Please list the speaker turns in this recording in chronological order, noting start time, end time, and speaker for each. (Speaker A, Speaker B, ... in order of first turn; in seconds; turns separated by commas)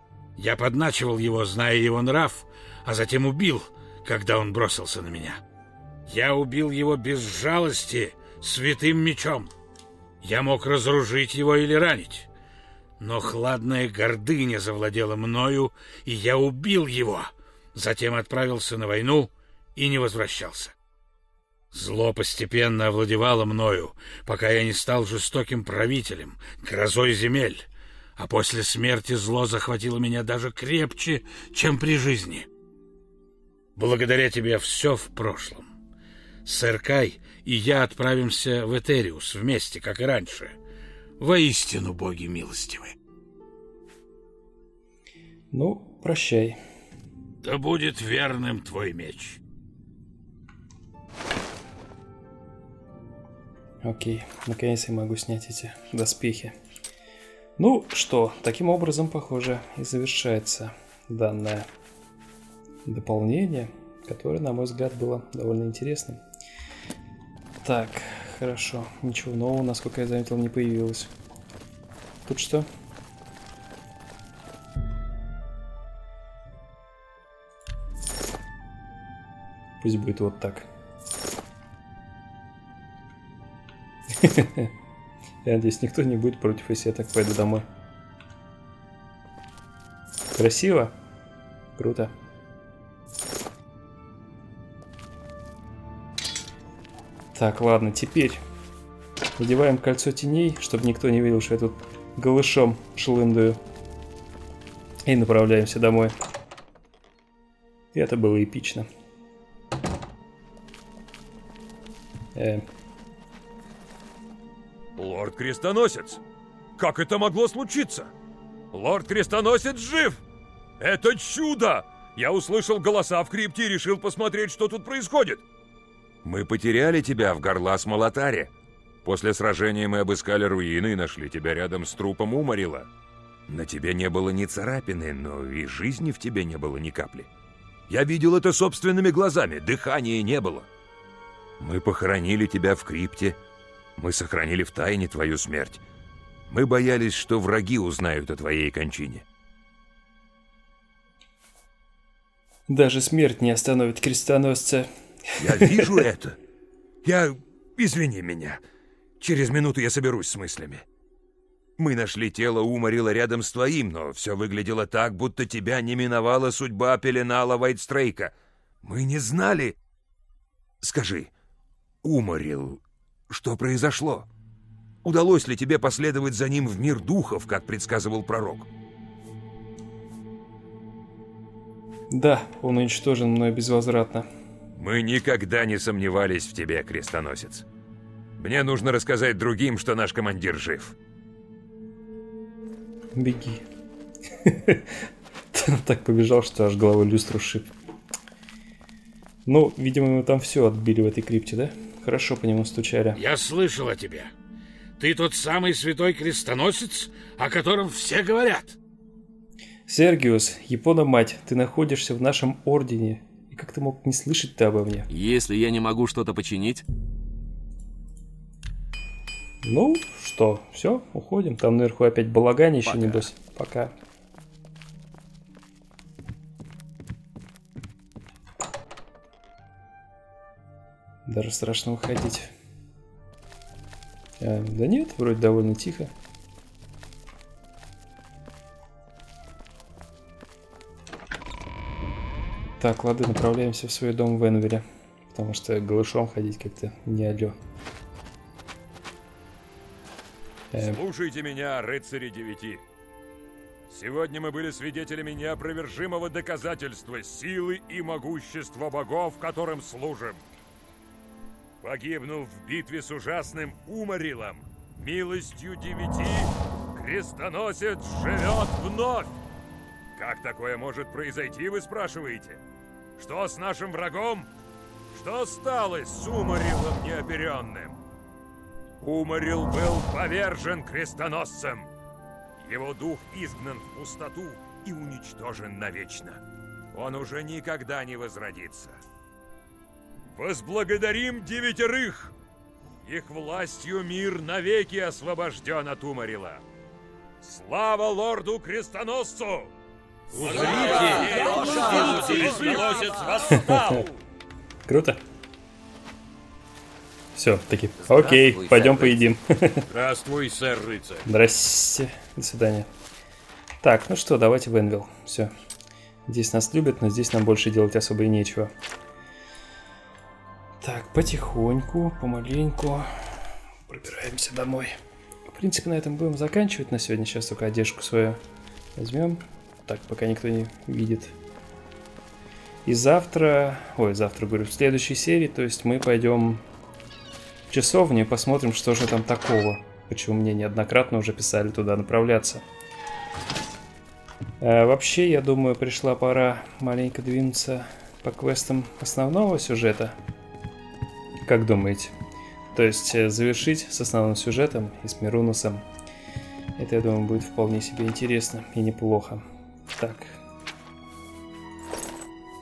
Speaker A: 0.4-5.4, Speaker A: 6.1-9.5, Speaker A: 10.2-12.3, Speaker A: 13.0-20.7, Speaker A: 21.7-27.6, Speaker A: 28.2-32.5, Speaker A: 33.8-35.7, Speaker A: 36.4-40.5, Speaker A: 41.2-43.0, Speaker B: 45.5-46.6, Speaker A: 47.4-49.4, Speaker B: 53.8-56.5, Speaker B: 57.6-61.7, Speaker B: 62.8-66.2, Speaker B: 67.6-71.1, Speaker B: 72.2-72.7, Speaker B: 79.8-80.7, Speaker B: 84.2-84.7, Speaker B: 85.4-87.6, Speaker B: 90.3-90.9, Speaker B: 91.8-92.1, Speaker B: 97.3-98.4, Speaker B: 99.4-103.6, Speaker B: 105.1-106.1, Speaker B: 107.9-108.9, Speaker B: 112.3-112.6, Speaker C: 115.0-116.2, Speaker C: 116.8-118.1, Speaker C: 118.7-120.2, Speaker C: 120.8-125.4, Speaker C: 126.2-128.5, Speaker C: 129.0-132.9, Speaker C: 133.5-137.3, Speaker C: 137.9-140.7, Speaker C: 141.6-143.4, Speaker C: 144.0-145.8, Speaker C: 146.5-149.2, Speaker B: 152.7-156.0, Speaker C: 155.4-156.4, Speaker C: 157.0-158.6, Speaker C: 159.2-160.8, Speaker C: 161.8-168.3, Speaker C: 168.8-169.8, Speaker C: 170.8-171.3, Speaker C: 172.0-174.3, Speaker C: 175.0-178.7, Speaker B: 182.1-184.3, Speaker C: 184.7-187.7, Speaker C: 188.4-190.9, Speaker B: 193.1-193.6, Speaker B: 194.4-197.7, Speaker B: 199.4-203.2, Speaker A: 203.2-204.3, Speaker A: 205.0-208.8, Speaker B: 209.9-215.1, Speaker D: 215.1-216.8, Speaker B: 219.6-223.9, Speaker D: 222.8-223.2, Speaker B: 231.2-232.5, Speaker B: 234.4-236.1, Speaker B: 242.8-247.6, Speaker B: 250.7-251.0, Speaker C: 250.7-252.8, Speaker C: 253.9-260.4, Speaker C: 261.8-269.4, Speaker C: 270.1-272.6, Speaker C: 273.2-274.5, Speaker C: 275.1-278.0, Speaker C: 279.0-281.9, Speaker C: 282.6-289.0, Speaker C: 290.3-292.3, Speaker C: 293.0-296.6, Speaker C: 297.4-299.7, Speaker A: 300.3-303.1, Speaker C: 300.3-304.1, Speaker B: 303.5-304.0, Speaker B: 304.9-305.2, Speaker B: 307.3-309.9, Speaker D: 308.0-309.2, Speaker C: 309.9-311.2, Speaker B: 311.2-312.9, Speaker B: 313.8-315.5, Speaker B: 316.3-318.7, Speaker B: 320.8-324.9, Speaker B: 325.5-328.4, Speaker B: 328.9-331.3, Speaker B: 332.8-336.6, Speaker B: 337.7-342.6, Speaker B: 344.6-350.1, Speaker B: 351.4-352.1, Speaker B: 352.7-355.8, Speaker B: 356.8-359.4, Speaker B: 360.0-360.4